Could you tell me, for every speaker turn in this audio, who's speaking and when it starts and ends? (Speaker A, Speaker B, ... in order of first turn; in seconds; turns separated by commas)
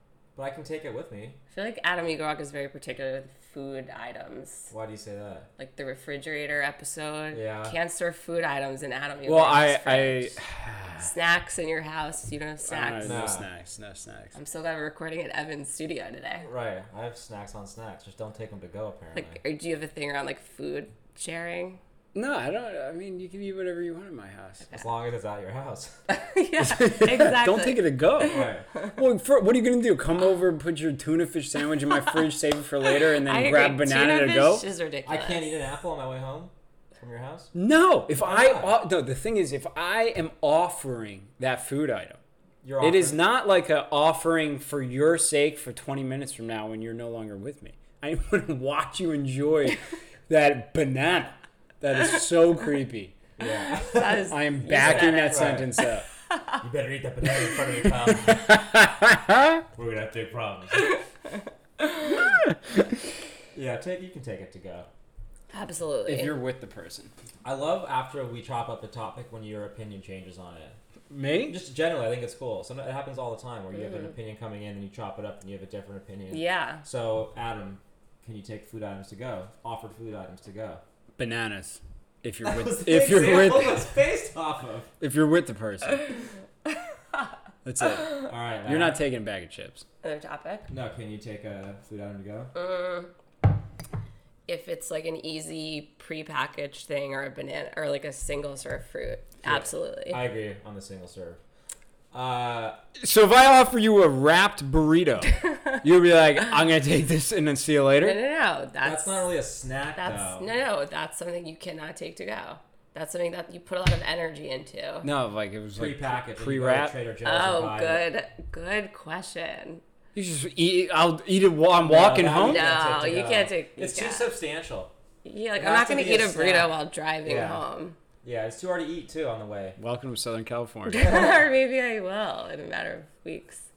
Speaker A: 0.3-1.4, Speaker B: 1.5-4.7, Speaker A: 4.7-5.5, Speaker B: 5.6-10.3, Speaker A: 7.3-7.8, Speaker C: 9.2-11.1, Speaker B: 11.0-13.2, Speaker C: 12.6-14.3, Speaker A: 13.0-13.5, Speaker B: 14.3-16.5, Speaker A: 16.4-19.4, Speaker B: 19.1-21.8, Speaker C: 22.1-24.7, Speaker A: 24.7-26.0, Speaker B: 26.1-28.4, Speaker C: 26.6-34.6, Speaker A: 28.2-28.7, Speaker B: 33.1-35.5, Speaker A: 35.0-37.5, Speaker C: 37.5-42.2, Speaker A: 38.2-38.7, Speaker A: 42.6-43.2, Speaker C: 42.8-53.2, Speaker A: 53.4-55.7, Speaker B: 53.9-55.6, Speaker C: 54.3-56.0, Speaker A: 56.6-58.5, Speaker C: 58.1-59.6, Speaker A: 59.7-60.9, Speaker A: 63.5-64.9, Speaker B: 65.5-66.3, Speaker C: 66.0-67.1, Speaker A: 67.4-70.8, Speaker C: 71.1-71.6, Speaker A: 71.5-80.8, Speaker B: 76.3-76.8, Speaker C: 81.2-83.9, Speaker A: 82.4-84.9, Speaker C: 85.0-86.1, Speaker C: 87.6-89.8, Speaker A: 88.3-89.0, Speaker B: 90.0-90.7, Speaker A: 90.7-92.5, Speaker B: 92.5-93.1, Speaker B: 94.5-100.2, Speaker A: 99.4-101.4, Speaker A: 102.1-102.8, Speaker C: 103.0-108.2, Speaker B: 108.0-109.3, Speaker A: 108.8-110.5, Speaker B: 110.0-115.1, Speaker C: 115.0-116.9, Speaker A: 115.8-118.0, Speaker B: 117.2-119.8, Speaker C: 120.1-122.7, Speaker A: 121.8-124.9, Speaker B: 122.4-124.3, Speaker B: 125.2-128.0, Speaker A: 125.5-127.6, Speaker A: 128.2-129.8, Speaker C: 129.8-131.3, Speaker B: 130.9-133.7